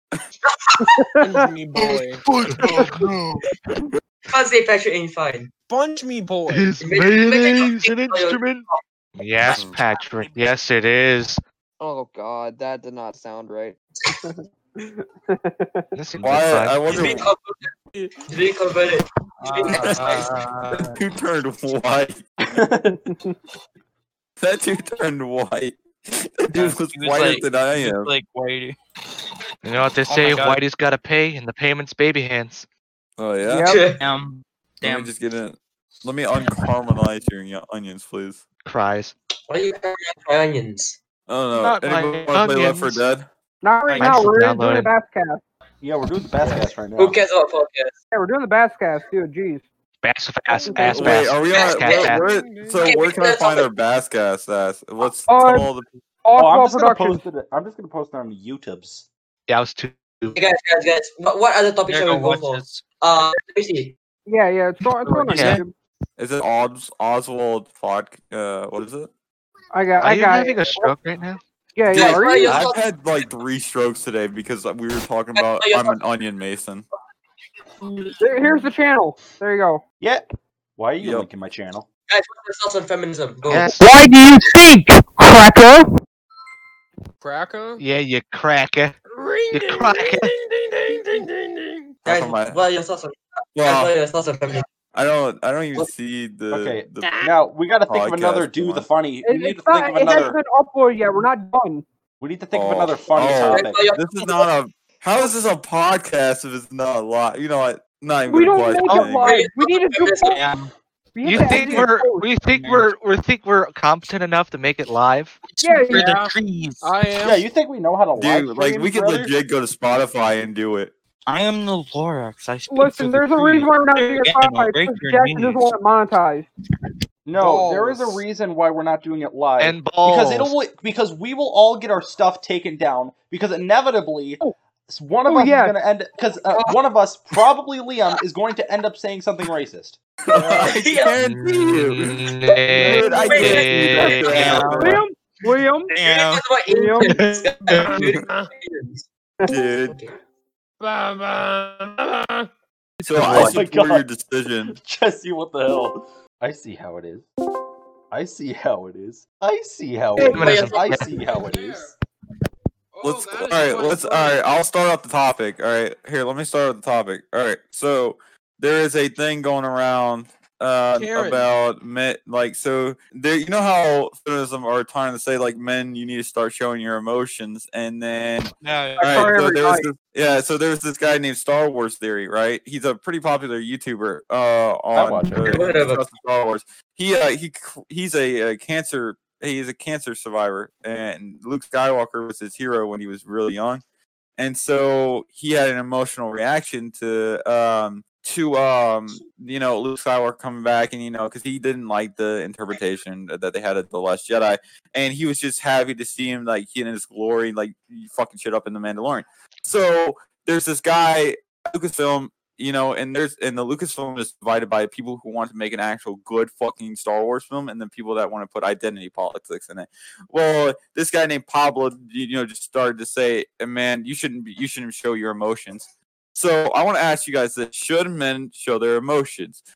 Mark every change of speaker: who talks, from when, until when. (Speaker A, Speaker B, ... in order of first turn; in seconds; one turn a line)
Speaker A: 0.5-0.9
Speaker B: 1.0-1.5
Speaker C: 1.2-2.2
Speaker D: 2.3-2.8
Speaker E: 2.4-3.4
Speaker A: 4.3-5.5
Speaker C: 5.7-6.7
Speaker D: 6.5-11.4
Speaker A: 6.8-8.8
Speaker E: 9.4-10.4
Speaker F: 11.8-13.8
Speaker B: 14.2-15.9
Speaker D: 15.9-17.0
Speaker G: 16.2-17.3
Speaker A: 16.9-17.7
Speaker A: 18.3-20.8
Speaker E: 19.4-21.0
Speaker G: 20.9-22.2
Speaker H: 22.4-23.0
Speaker B: 22.9-23.3
Speaker G: 24.4-28.1
Speaker E: 26.5-28.8
Speaker D: 29.6-32.6
Speaker E: 30.0-30.6
Speaker G: 33.2-33.8
Speaker B: 33.4-33.9
Speaker A: 33.6-34.0
Speaker E: 33.9-35.1
Speaker G: 34.8-38.4
Speaker D: 38.6-39.1
Speaker A: 39.5-41.0
Speaker G: 41.3-43.3
Speaker D: 41.5-43.0
Speaker B: 43.6-45.4
Speaker E: 43.9-44.3
Speaker D: 44.0-44.9
Speaker H: 45.8-47.2
Speaker A: 46.4-47.9
Speaker B: 48.1-49.7
Speaker D: 50.0-52.2
Speaker B: 50.5-51.1
Speaker G: 50.9-56.0
Speaker A: 51.5-52.2
Speaker C: 51.9-53.0
Speaker A: 52.8-53.7
Speaker B: 55.3-55.7
Speaker B: 56.2-57.2
Speaker H: 56.4-59.1
Speaker D: 59.5-60.4
Speaker A: 60.3-64.0
Speaker E: 61.9-62.8
Speaker B: 64.2-65.7
Speaker D: 65.3-65.6
Speaker G: 66.2-69.1
Speaker B: 69.7-71.0
Speaker D: 70.0-71.4
Speaker B: 71.8-72.7
Speaker G: 71.9-76.8
Speaker A: 71.9-72.8
Speaker A: 75.4-76.0
Speaker B: 77.9-79.8
Speaker H: 80.8-81.9
Speaker G: 81.0-81.3
Speaker A: 82.1-83.7
Speaker D: 83.5-83.8
Speaker B: 83.8-85.8
Speaker C: 87.2-87.8
Speaker D: 87.8-88.9
Speaker C: 89.1-91.9
Speaker D: 89.5-90.3
Speaker G: 92.0-92.6
Speaker A: 92.0-94.7
Speaker G: 93.5-93.9
Speaker G: 94.9-97.2
Speaker H: 96.5-100.4
Speaker C: 97.0-97.3
Speaker G: 97.9-98.9
Speaker B: 99.2-101.8
Speaker H: 102.2-103.8
Speaker G: 102.5-109.3
Speaker A: 103.1-104.5
Speaker B: 108.3-110.4
Speaker D: 108.9-109.2
Speaker A: 109.2-110.4
Speaker E: 110.3-110.7
Speaker B: 111.1-112.3
Speaker D: 111.2-115.4
Speaker E: 111.4-111.9
Speaker E: 112.4-112.9
Speaker E: 115.5-116.9
Speaker B: 115.6-116.2
Speaker C: 115.9-117.4
Speaker H: 117.2-119.3
Speaker G: 118.2-120.9
Speaker E: 121.2-125.7
Speaker B: 122.7-126.5
Speaker H: 127.2-140.0
Speaker C: 127.3-128.2
Speaker D: 129.6-130.5
Speaker B: 135.2-135.8
Speaker A: 136.5-136.8
Speaker A: 140.3-141.8
Speaker G: 140.3-142.2
Speaker D: 141.2-144.7
Speaker A: 142.5-144.6
Speaker G: 142.7-145.0
Speaker B: 142.8-146.0
Speaker E: 144.3-145.0
Speaker E: 145.9-146.5
Speaker A: 146.0-149.1
Speaker B: 146.7-147.2
Speaker E: 147.0-148.0
Speaker C: 147.7-148.5
Speaker G: 149.5-150.0
Speaker A: 149.8-150.1
Speaker C: 150.8-152.5
Speaker G: 153.0-154.8
Speaker D: 153.1-153.6
Speaker H: 153.2-154.1
Speaker H: 154.7-157.3
Speaker H: 158.1-161.9
Speaker A: 160.2-161.1
Speaker D: 160.2-161.1
Speaker C: 161.2-161.9
Speaker C: 162.9-164.5
Speaker G: 163.0-193.8
Speaker C: 170.9-171.5
Speaker E: 178.6-179.3
Speaker B: 179.0-179.9
Speaker H: 184.9-185.6
Speaker A: 185.4-186.1
Speaker G: 194.4-229.6